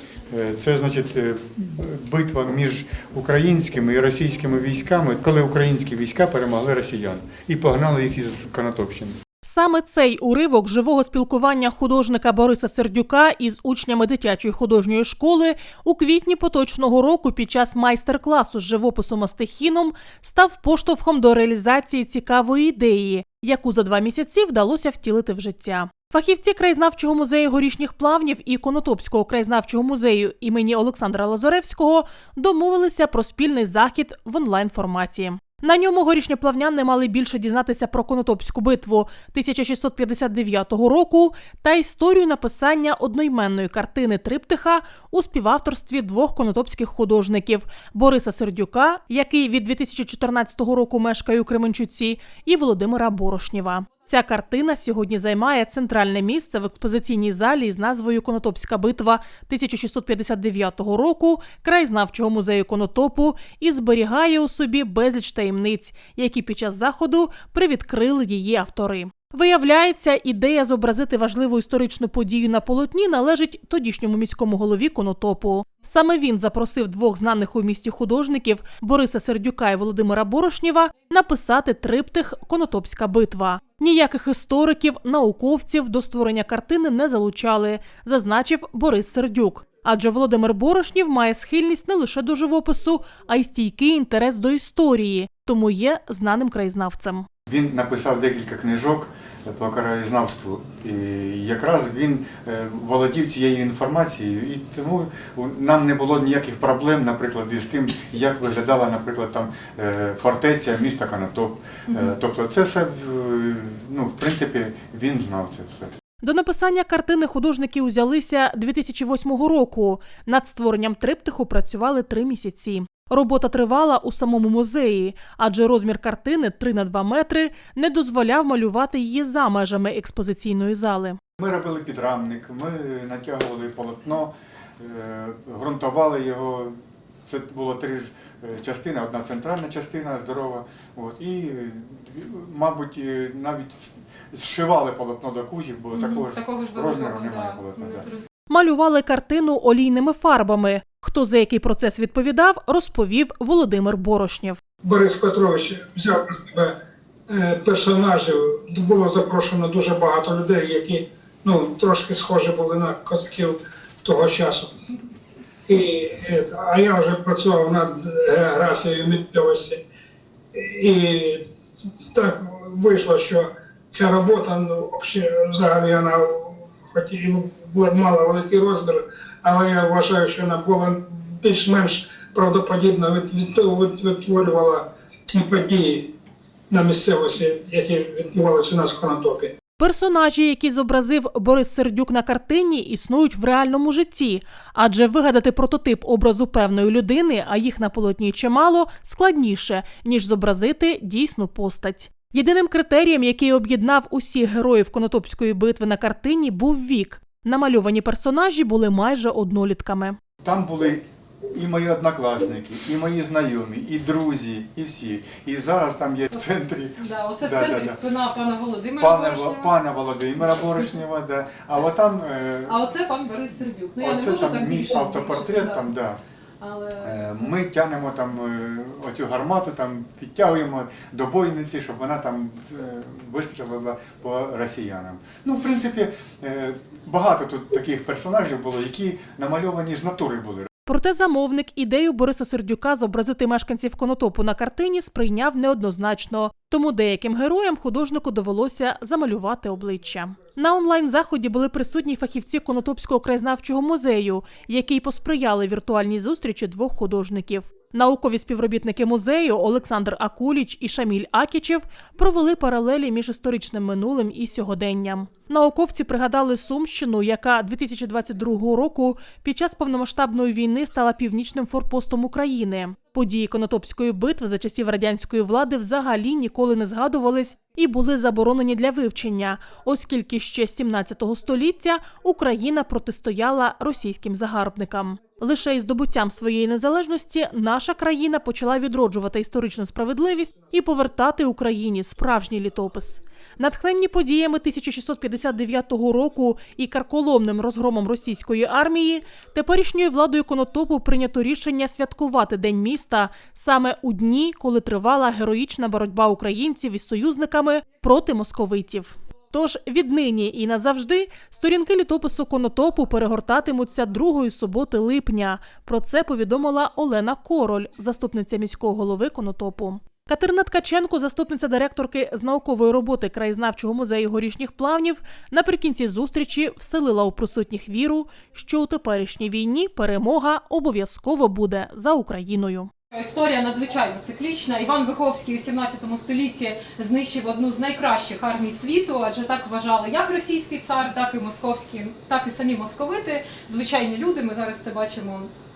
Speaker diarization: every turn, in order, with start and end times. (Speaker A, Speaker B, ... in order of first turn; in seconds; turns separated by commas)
Speaker A: 0.3-9.2, Speaker B: 9.4-97.3, Speaker A: 97.5-115.9, Speaker B: 116.2-131.2, Speaker A: 131.4-136.7, Speaker A: 137.2-148.1, Speaker C: 145.9-148.3, Speaker B: 148.5-154.6, Speaker D: 154.8-156.7, Speaker D: 157.3-164.7, Speaker D: 165.7-169.8, Speaker D: 170.5-171.4, Speaker D: 172.1-186.1, Speaker D: 186.7-189.5, Speaker B: 189.8-210.2, Speaker A: 210.4-218.0, Speaker C: 217.0-219.8, Speaker A: 219.0-222.8, Speaker C: 222.7-225.9, Speaker A: 224.0-226.2, Speaker C: 226.6-227.2, Speaker A: 227.0-240.7, Speaker B: 240.8-332.9, Speaker C: 333.1-345.5